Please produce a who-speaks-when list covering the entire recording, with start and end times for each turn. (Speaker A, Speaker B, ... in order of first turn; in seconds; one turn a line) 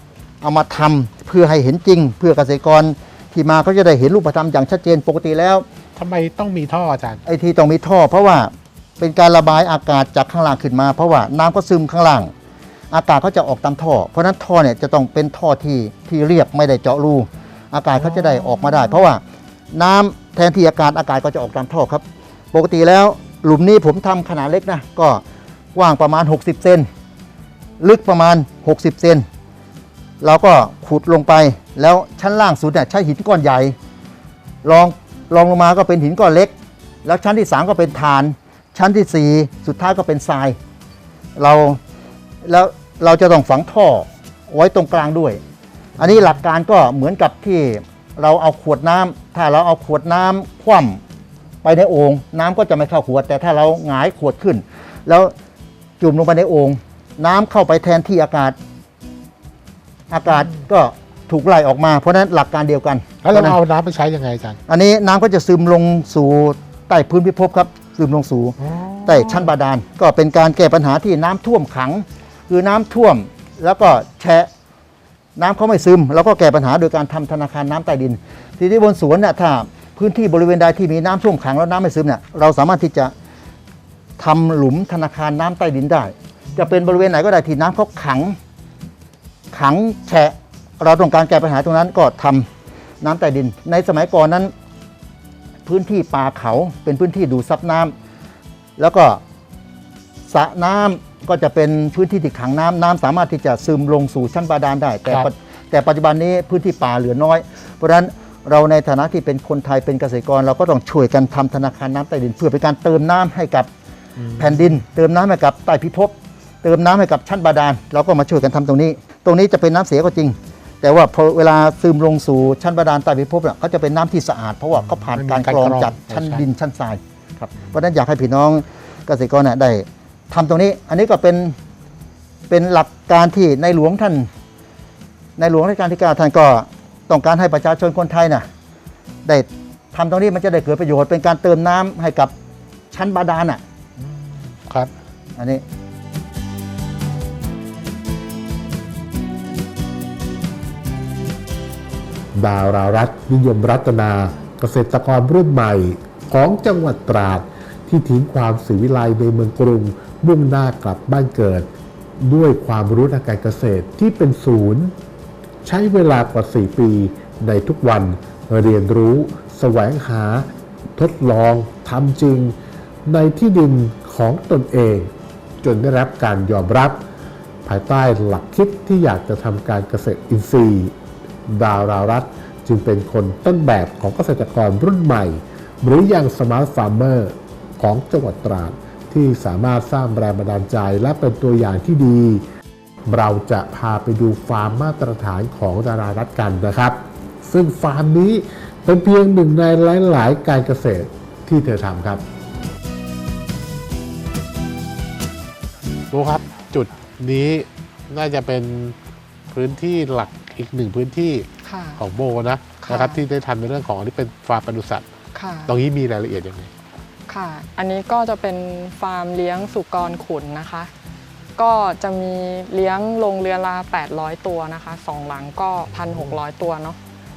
Speaker A: 0.4-5.7
Speaker B: 5.9-7.2
Speaker A: 7.2-12.3
Speaker A: 12.9-19.2
Speaker B: 18.0-18.9
Speaker A: 19.7-25.2
Speaker A: 25.7-26.9
Speaker A: 27.8-29.2
Speaker A: 30.2-33.8
Speaker A: 34.6-36.5
Speaker A: 37.0-40.6
Speaker A: 41.4-41.8
Speaker A: 42.4-45.4
Speaker A: 46.0-51.0
Speaker A: 51.6-55.3
Speaker A: 56.0-58.6
Speaker A: 60.1-63.6
Speaker B: 63.2-64.6
Speaker A: 64.7-74.5
Speaker B: 68.6-69.5
Speaker A: 75.3-83.1
Speaker A: 84.2-88.4
Speaker A: 89.5-92.5
Speaker A: 93.0-94.5
Speaker A: 95.7-97.9
Speaker A: 98.8-99.2
Speaker A: 100.3-113.7
Speaker B: 114.2-114.8
Speaker A: 114.4-131.6
Speaker B: 124.7-126.4
Speaker A: 132.5-134.3
Speaker A: 135.4-138.5
Speaker A: 139.2-142.3
Speaker A: 142.9-143.6
Speaker B: 144.0-144.9
Speaker A: 145.4-145.6
Speaker C: 152.3-161.7
Speaker C: 162.2-164.9
Speaker C: 165.6-172.5
Speaker C: 173.1-175.1
Speaker C: 175.6-177.0
Speaker C: 177.6-180.9
Speaker C: 181.5-192.4
Speaker C: 193.1-202.2
Speaker B: 206.1-209.0
Speaker B: 209.5-211.5
Speaker D: 211.6-212.0
Speaker B: 212.0-215.1
Speaker D: 212.8-213.2
Speaker D: 215.3-215.7
Speaker B: 215.7-216.7
Speaker D: 217.3-220.9
Speaker D: 221.6-227.0
Speaker B: 225.9-226.3